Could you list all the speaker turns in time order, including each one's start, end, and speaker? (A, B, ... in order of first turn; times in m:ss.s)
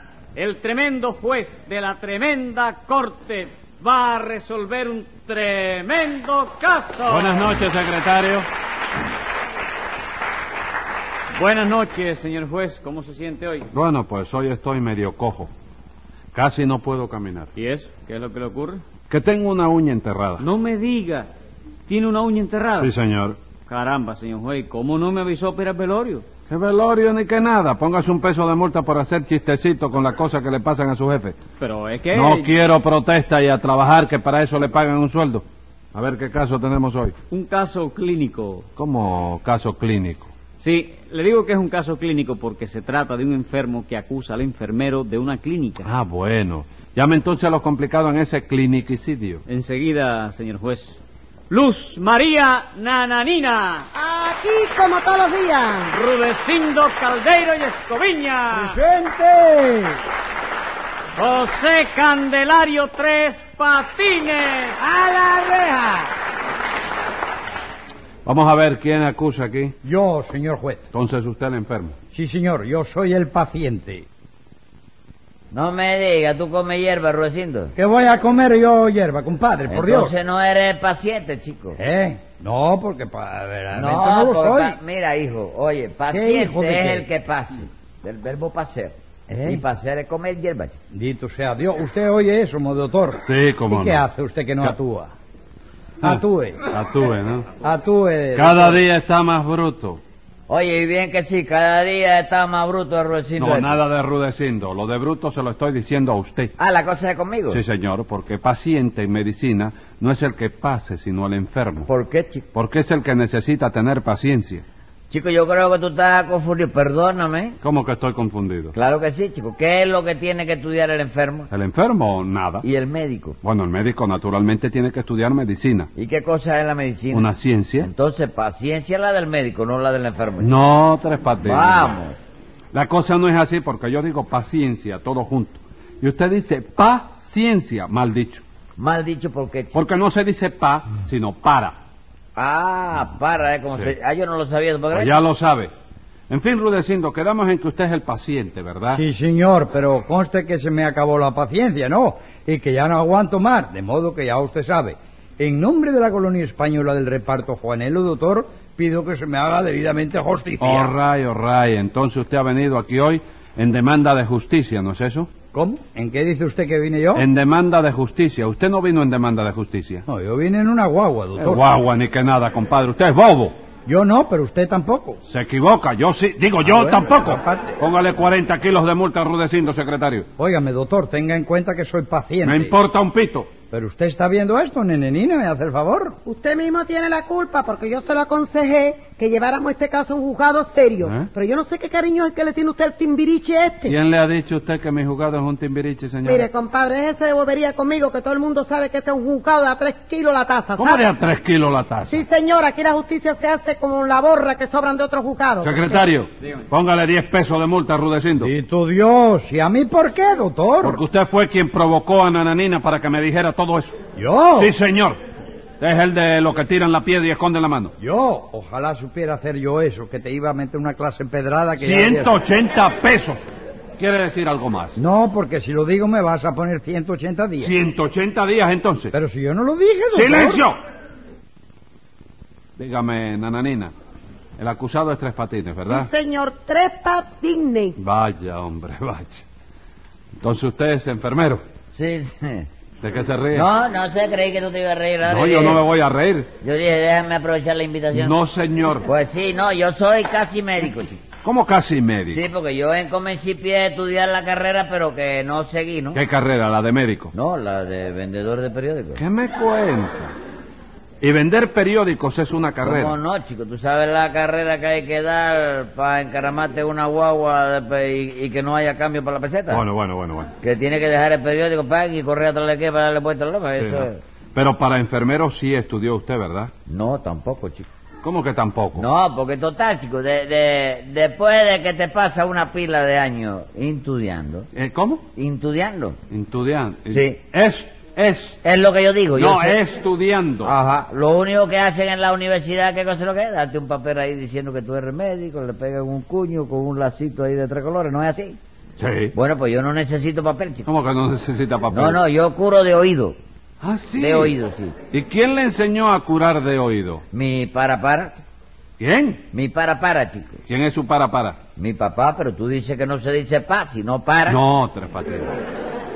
0:00.4-0:07.5 A
0:07.1-0:08.5 B
0:11.4-0:13.7 A
0:13.7-0:15.5 B
0:16.3-0:17.5 B
0:17.6-0:18.8 A
0:19.1-0:20.4 B
0:20.4-0:21.3 A
0:21.9-0:22.9 A
0:22.8-0:23.4 B
0:23.7-0:26.2 A
0:26.5-0:31.4 B
0:31.6-0:32.5 A
0:32.1-0:37.2 B
0:37.3-0:38.7 A
0:38.8-0:40.3 B
0:40.6-0:45.9 A
0:45.8-0:49.4 B
0:49.5-0:53.9 A
0:54.0-0:55.9 C
0:55.9-0:58.7 A
0:58.5-1:00.0 D
1:01.2-1:04.8 A
1:04.8-1:06.1 D
1:08.2-1:09.7 B
1:09.8-1:10.8 D
1:10.9-1:12.0 B
1:12.1-1:14.0 D
1:15.5-1:17.7 E
1:17.8-1:20.1 D
1:19.7-1:21.8 E
1:21.8-1:24.8 D
1:23.7-1:30.8 E
1:26.1-1:27.1 D
1:29.3-1:29.6 D
1:30.9-1:35.1 D
1:33.2-1:34.0 B
1:36.0-1:36.6 D
1:36.0-1:37.5 B
1:37.6-1:38.8 D
1:38.3-1:40.0 B
1:40.5-1:43.8 E
1:43.4-1:46.5 B
1:46.6-1:47.6 E
1:47.5-1:51.9 B
1:51.9-1:52.4 E
1:52.5-1:54.6 B
1:55.1-1:57.6 E
1:57.6-1:58.7 B
1:58.7-2:01.5 E
2:01.5-2:02.6 B
2:02.6-2:03.4 E
2:03.4-2:05.9 B
2:06.0-2:07.3 E
2:07.1-2:07.9 B
2:07.8-2:10.5 E
2:10.4-2:11.9 B
2:11.4-2:12.2 E
2:12.7-2:18.4 B
2:18.8-2:19.7 E
2:19.7-2:21.7 B
2:22.4-2:25.2 E
2:24.9-2:25.7 B
2:26.3-2:29.0 B
2:28.9-2:40.9 D
2:40.6-2:45.3 B
2:45.5-2:47.2 D
2:47.1-2:50.0 B
2:50.1-2:51.6 D
2:51.4-2:53.5 B
2:53.8-2:55.2 D
2:55.3-3:00.3 B
2:56.6-2:57.8 D
3:00.4-3:02.7 D
3:02.4-3:03.5 B
3:03.7-3:06.2 D
3:06.3-3:13.9 C
3:11.0-3:11.3 B
3:13.8-3:16.5 B
3:16.2-3:21.0 C
3:20.8-3:22.2 B
3:22.1-3:26.0 C
3:25.6-3:28.5 B
3:28.4-3:31.0 D
3:30.8-3:34.0 B
3:34.2-3:34.7 D
3:34.5-3:35.2 B
3:35.8-3:37.9 B
3:38.0-3:42.3 D
3:41.8-3:43.4 B
3:44.0-3:45.0 B
3:45.0-3:47.7 D
3:47.6-3:49.1 B
3:49.1-3:50.6 D
3:50.1-3:50.8 B
3:52.8-3:53.9 B
3:54.6-3:56.1 B
3:55.9-3:58.0 C
3:58.0-3:59.4 B
4:00.4-4:01.6 B
4:01.9-4:02.7 E
4:03.0-4:03.7 B
4:03.5-4:05.8 E
4:05.2-4:06.5 B
4:06.6-4:08.4 E
4:08.1-4:09.0 B
4:09.0-4:11.2 E
4:11.4-4:12.4 B
4:12.3-4:16.2 E
4:16.1-4:17.3 B
4:17.3-4:19.2 E
4:19.2-4:20.3 B
4:21.2-4:23.2 B
4:22.8-4:29.8 E
4:29.7-4:30.5 B
4:30.6-4:34.2 E
4:33.8-4:36.7 B
4:36.9-4:37.9 E
4:38.2-4:39.0 B
4:38.9-4:44.7 E
4:44.7-4:45.2 B
4:45.4-4:46.2 E
4:46.3-4:48.6 B
4:47.1-4:47.4 E
4:48.6-4:49.8 E
4:49.4-4:50.7 B
4:50.6-4:58.6 E
4:59.0-4:59.3 B
4:59.3-5:00.9 E
5:00.9-5:02.2 B
5:01.9-5:03.4 E
5:03.8-5:04.5 B
5:04.2-5:05.0 E
5:05.1-5:07.2 B
5:07.3-5:08.4 E
5:09.0-5:09.4 B
5:09.5-5:10.6 E
5:10.7-5:11.6 B
5:11.8-5:14.6 E
5:14.5-5:15.5 B